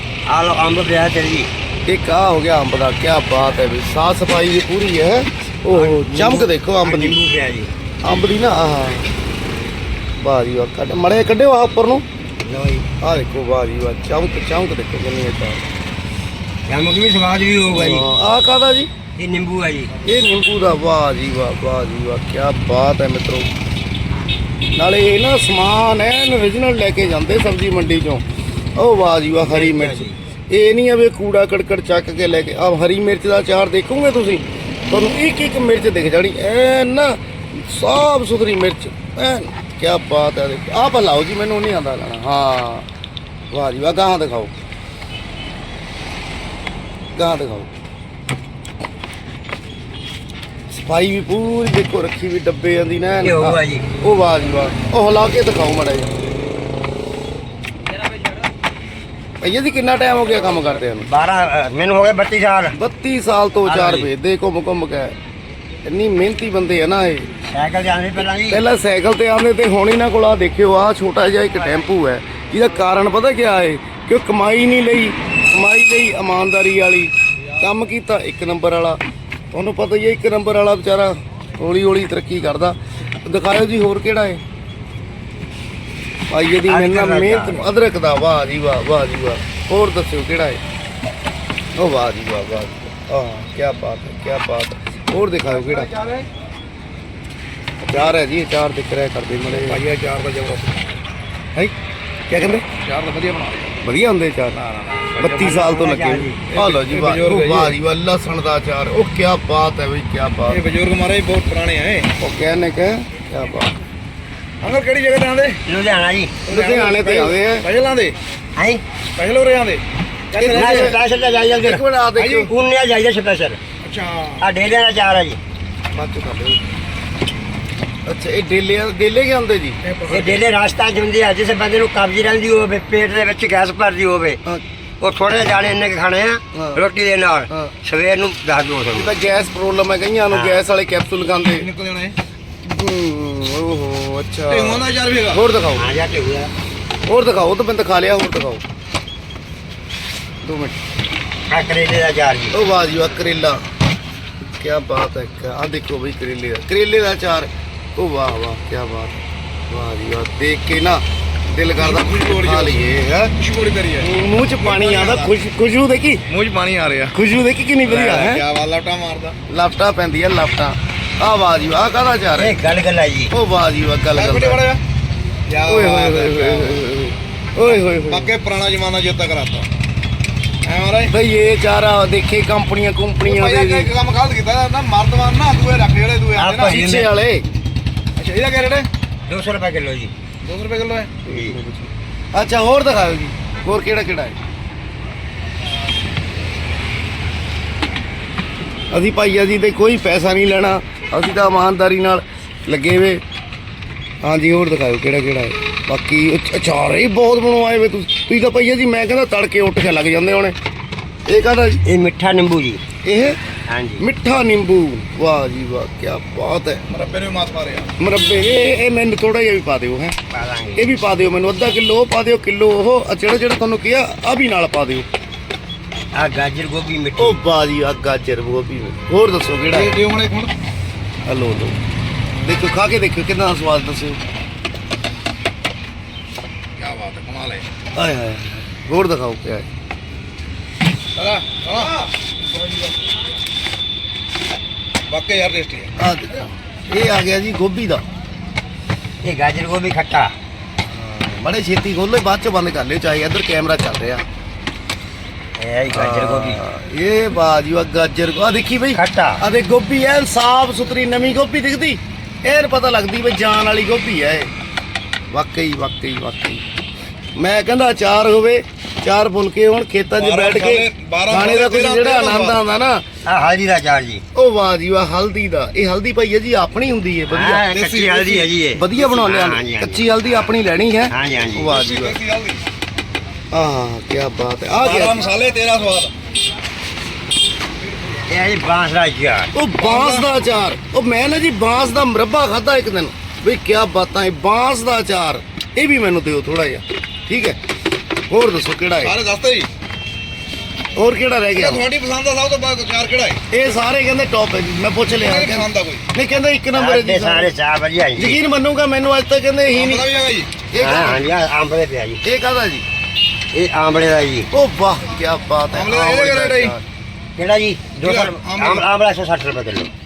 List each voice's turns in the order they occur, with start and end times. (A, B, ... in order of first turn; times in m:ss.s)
0:00.3-0:01.5 A
0:01.8-0:07.2 B
0:05.7-0:07.7 A
0:08.0-0:09.1 B
0:10.2-0:12.0 B
0:12.4-0:12.9 A
0:13.0-0:15.6 B
0:16.7-0:18.0 A
0:17.7-0:18.9 B
0:19.2-0:19.9 A
0:20.0-0:23.5 B
0:24.7-0:28.2 B
0:28.7-0:42.9 B
0:29.4-0:30.2 A
0:43.5-0:44.5 B
0:47.1-0:47.7 B
0:50.7-0:56.1 B
0:53.2-0:53.8 A
0:59.4-1:01.1 B
1:01.0-1:02.8 A
1:02.7-1:05.1 B
1:03.6-1:04.1 A
1:05.8-1:07.3 B
1:07.4-1:08.6 A
1:08.5-1:19.0 B
1:19.5-1:24.4 B
1:26.3-1:30.6 B
1:26.6-1:27.7 A
1:31.7-1:35.9 B
1:35.7-1:36.2 C
1:37.8-1:39.8 B
1:39.5-1:41.0 C
1:42.3-1:42.6 B
1:42.8-1:43.8 C
1:43.8-1:44.6 B
1:44.6-1:45.7 C
1:45.2-1:50.6 B
1:45.4-1:46.4 A
1:46.5-1:47.8 C
1:50.5-1:52.1 C
1:52.2-1:53.7 B
1:54.6-1:55.6 C
1:55.6-1:56.4 A
1:56.4-1:58.2 C
1:56.5-1:57.7 B
1:58.6-1:58.8 A
1:59.1-2:01.0 C
2:00.3-2:01.0 B
2:00.5-2:01.8 A
2:01.6-2:02.5 B
2:02.2-2:02.5 C
2:02.4-2:03.6 A
2:03.8-2:04.4 C
2:04.4-2:05.4 A
2:05.9-2:06.6 B
2:08.0-2:09.8 B
2:09.8-2:10.4 C
2:10.1-2:14.4 A
2:15.0-2:19.1 A
2:16.5-2:16.8 B
2:18.9-2:21.7 B
2:20.3-2:20.6 A
2:21.5-2:22.2 C
2:22.6-2:25.8 B
2:24.5-2:25.4 C
2:25.7-2:26.5 A
2:27.0-2:28.6 B
2:30.4-2:30.8 B
2:31.5-2:32.6 A
2:32.5-2:33.6 B
2:34.6-2:43.3 B
2:41.8-2:42.8 C
2:43.4-2:45.3 C
2:44.0-2:46.2 B
2:46.3-2:47.1 C
2:47.1-2:48.4 B
2:47.8-2:49.4 C
2:49.5-2:52.6 B
2:52.3-2:53.3 A
2:53.3-2:54.6 B
2:54.1-2:54.8 C
2:55.5-2:56.8 C
2:55.6-2:58.3 B
2:57.7-2:59.7 C
3:00.6-3:01.1 C
3:01.1-3:03.9 B
3:03.2-3:06.8 C
3:06.4-3:07.1 A
3:06.6-3:07.4 B
3:08.2-3:08.9 C
3:09.2-3:10.1 A
3:10.4-3:11.1 C
3:11.2-3:14.4 B
3:11.3-3:11.6 A
3:18.9-3:23.2 B
3:24.2-3:30.6 B
3:31.2-3:31.8 B
3:31.8-3:32.8 A
3:33.0-3:33.4 B
3:33.7-3:34.0 A
3:34.0-3:36.8 B
3:36.9-3:37.9 C
3:38.0-3:40.2 B
3:40.3-3:40.9 A
3:40.8-3:45.1 B
3:46.1-3:47.4 A
3:47.2-3:49.9 B
3:49.7-3:50.5 C
3:51.2-3:51.8 B
3:52.4-3:54.2 B
3:56.8-3:57.7 C
3:57.9-3:59.7 B
4:01.1-4:02.1 C
4:05.1-4:05.9 C
4:06.0-4:08.0 B
4:09.2-4:10.3 A
4:10.9-4:14.2 B
4:15.6-4:16.6 A
4:15.9-4:24.5 B
4:18.9-4:19.4 A
4:25.3-4:26.6 B
4:27.4-4:33.0 B
4:30.1-4:32.6 C
4:33.2-4:34.2 A
4:34.3-4:37.7 B
4:37.3-4:40.1 A
4:37.7-4:38.5 C
4:38.7-4:42.2 B
4:41.1-4:41.7 A
4:41.7-4:42.6 C
4:43.5-4:45.2 B
4:44.7-4:46.1 C
4:48.3-4:49.5 A
4:49.5-4:57.6 B
4:49.8-4:50.3 C
4:58.3-4:59.2 B
4:59.0-4:59.7 C
5:00.9-5:01.9 B
5:01.6-5:03.4 C
5:03.5-5:07.5 B
5:05.1-5:06.1 C
5:06.7-5:08.4 A
5:08.2-5:10.1 B
5:09.7-5:10.5 C
5:10.7-5:11.3 B
5:10.8-5:12.2 A
5:12.2-5:12.8 B
5:13.5-5:14.5 A
5:14.5-5:16.8 B
5:15.7-5:16.7 C
5:17.4-5:19.9 A
5:18.0-5:18.9 C